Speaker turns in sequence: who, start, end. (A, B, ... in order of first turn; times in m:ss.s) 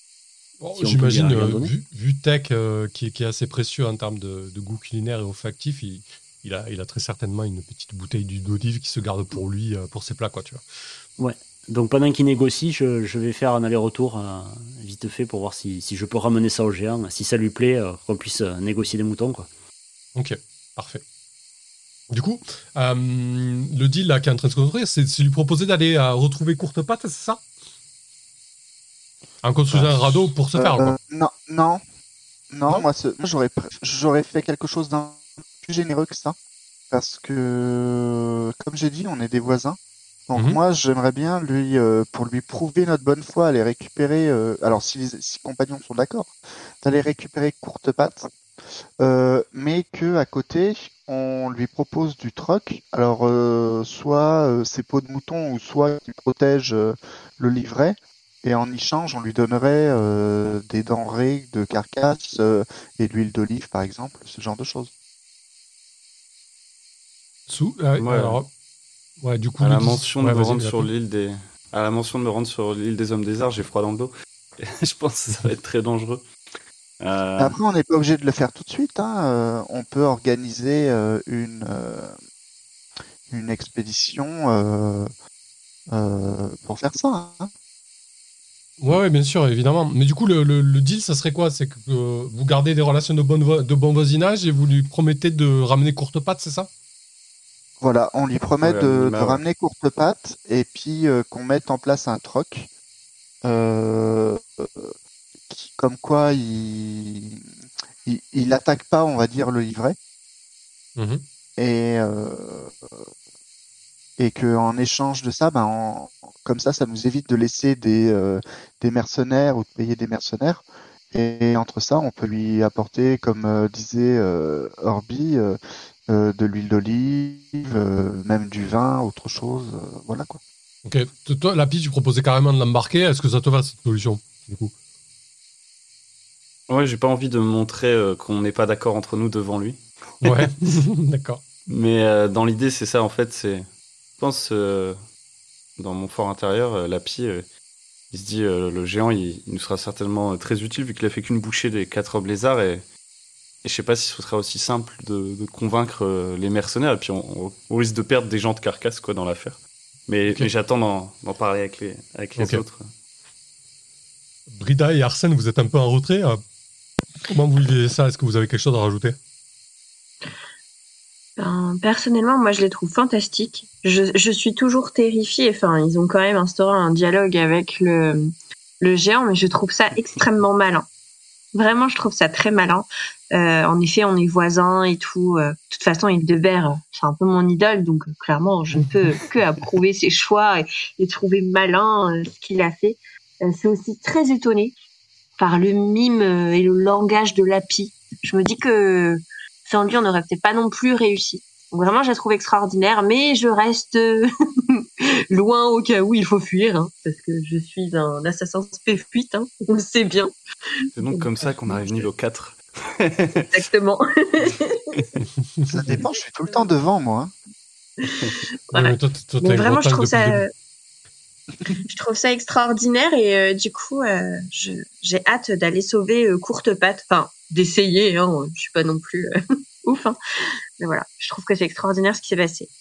0:00.6-0:10.6 A
0:00.8-0:01.7 B
0:11.2-0:19.5 B
0:20.1-0:21.0 A
0:22.1-0:27.4 A
0:29.4-0:31.0 A
0:29.7-0:31.8 C
0:32.5-0:36.4 C
0:36.9-0:39.8 C
0:40.3-0:48.3 C
0:49.0-1:04.9 C
1:07.5-1:08.5 A
1:08.0-1:08.4 D
1:09.2-1:10.9 A
1:09.6-1:16.2 D
1:17.0-1:17.6 D
1:17.4-1:22.1 C
1:23.3-1:25.1 C
1:25.9-1:27.5 C
1:28.8-1:36.7 A
1:37.8-1:42.7 C
1:38.6-1:39.4 D
1:43.4-1:44.9 C
1:45.5-1:47.5 C
1:48.0-1:50.0 C
1:51.0-1:51.2 A
1:51.6-1:52.7 C
1:54.2-2:10.4 C
2:10.8-2:14.7 A
2:16.7-2:20.5 D
2:20.2-2:21.4 A
2:21.7-2:23.7 D
2:24.2-2:25.0 D
2:25.8-2:27.4 D
2:28.1-2:32.8 D
2:33.6-2:42.9 D
2:42.4-2:42.6 A
2:44.5-2:46.4 A
2:47.3-2:49.2 A
2:51.4-3:00.9 E
3:01.5-3:14.7 E
3:15.4-3:30.3 E
3:31.0-3:33.5 D
3:31.0-3:32.1 E
3:33.5-3:35.0 E
3:35.7-3:37.3 C
3:38.0-3:40.5 E
3:38.7-3:40.4 A
3:41.8-3:49.3 E
3:49.8-3:50.2 E
3:50.8-3:52.7 E